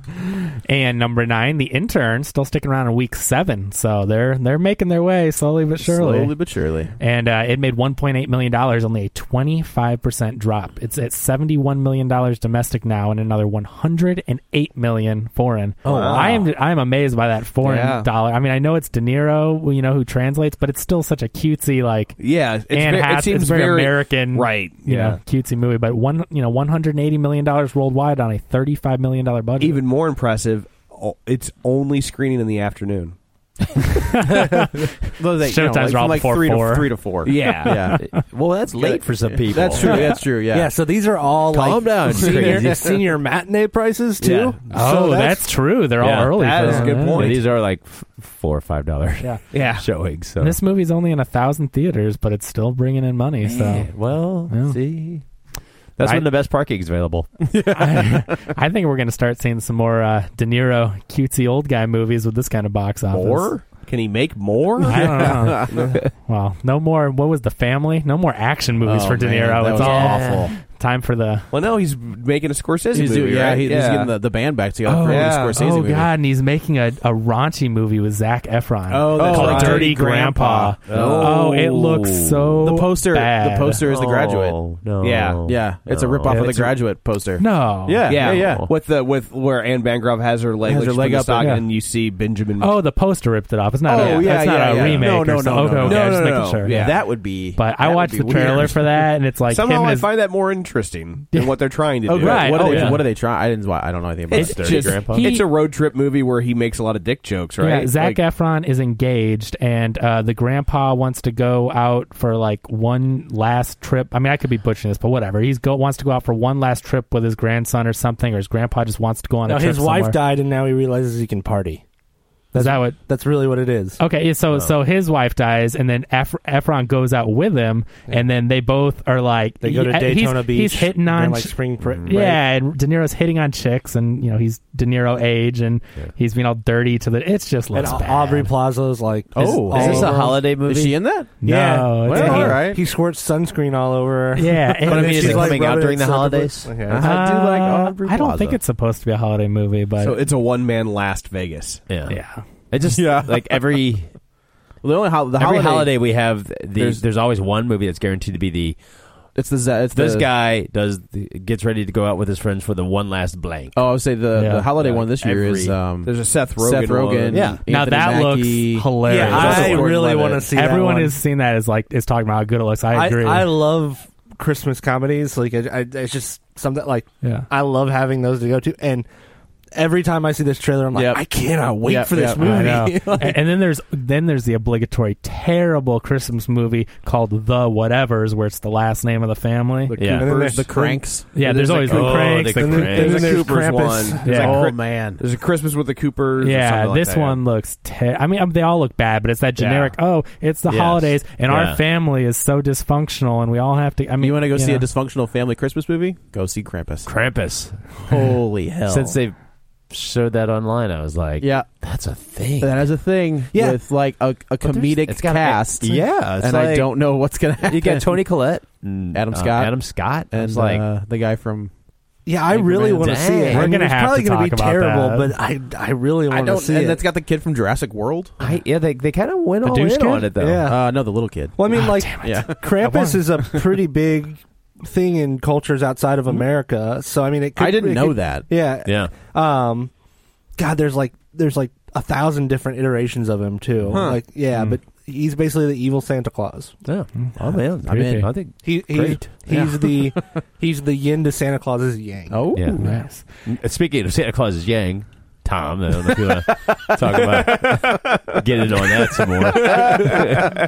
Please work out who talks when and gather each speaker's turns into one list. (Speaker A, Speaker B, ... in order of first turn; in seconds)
Speaker A: 0.7-6.4, 7.0-29.8, 33.9-34.9, 35.4-37.0, 44.7-47.4, 50.4-54.8, 56.0-56.3, 57.7-63.5, 64.9-71.5, 74.8-83.8, 86.3-88.1, 91.4-91.7, 92.6-96.9, 97.6-100.1, 102.1-103.0, 104.4-105.5, 107.6-120.2, 122.5-123.0, 124.0-138.5, 141.4-142.6, 144.4-145.6, 147.0-150.2, 152.1-152.4, 164.3-164.7, 167.7-169.9, 170.5-173.5, 177.2-177.5, 182.3-190.0, 191.3-192.8, 194.2-194.6, 196.4-204.9, 223.5-225.3, 229.8-230.2, 231.7-233.4, 247.2-248.3, 252.8-253.2
Speaker B: 5.8-6.9, 35.2-38.2, 38.8-40.8, 42.2-42.7, 57.5-58.3, 64.9-65.9, 68.8-70.5, 72.9-76.1, 78.9-81.8, 82.6-84.7, 85.4-88.7, 90.6-91.6, 93.8-99.0, 102.1-105.0, 139.3-141.4, 142.0-142.8, 144.9-145.5, 146.8-148.6, 152.9-153.6, 154.8-157.0, 159.3-160.3, 163.7-170.5, 180.9-182.9, 189.9-195.2, 204.2-207.1, 208.0-209.2, 211.4-211.7, 212.6-218.3, 219.1-221.7, 222.8-223.1, 226.3-228.4, 230.5-232.9, 237.6-238.5, 243.9-244.7, 247.8-248.3, 249.5-250.2, 252.3-253.1, 257.3-258.1, 259.2-260.2
Speaker C: 15.8-16.4, 17.6-18.1, 22.2-25.2, 29.6-33.1, 37.2-38.0, 44.2-44.6, 46.1-47.4, 49.5-49.9, 63.1-66.0, 71.5-74.2, 75.0-75.6, 79.2-79.9, 80.9-81.4, 85.0-85.5, 88.1-92.8, 94.0-95.2, 95.8-97.0, 99.5-103.0, 104.3-108.2, 150.0-151.8, 166.0-167.6, 191.8-197.4, 199.6-199.9
Speaker D: 15.9-16.2, 38.0-40.1, 41.5-43.0, 46.0-50.6, 53.4-55.2, 56.0-57.4, 69.8-70.5, 79.3-79.8, 80.9-82.7, 83.8-86.5, 88.1-88.7, 96.7-97.5, 102.5-103.1, 104.3-105.3, 131.8-132.2, 139.4-141.0, 144.9-146.8, 151.9-154.1, 155.4-158.8, 159.9-164.1, 164.8-165.8, 167.3-167.6, 169.1-170.1, 190.0-190.5, 191.9-193.3, 200.7-201.8, 207.1-209.3, 209.9-212.9, 214.6-220.9, 222.5-223.7, 228.4-230.7, 238.8-239.1, 246.8-249.3, 252.5-260.5
Speaker E: 40.0-45.5, 119.5-121.8, 122.5-124.0, 129.6-132.4, 137.7-140.5, 141.4-147.1, 168.8-171.2, 172.9-179.1, 179.7-183.4, 190.2-191.1, 192.6-194.4, 213.5-213.8, 222.2-227.1, 230.4-239.9, 240.6-246.8, 248.6-252.8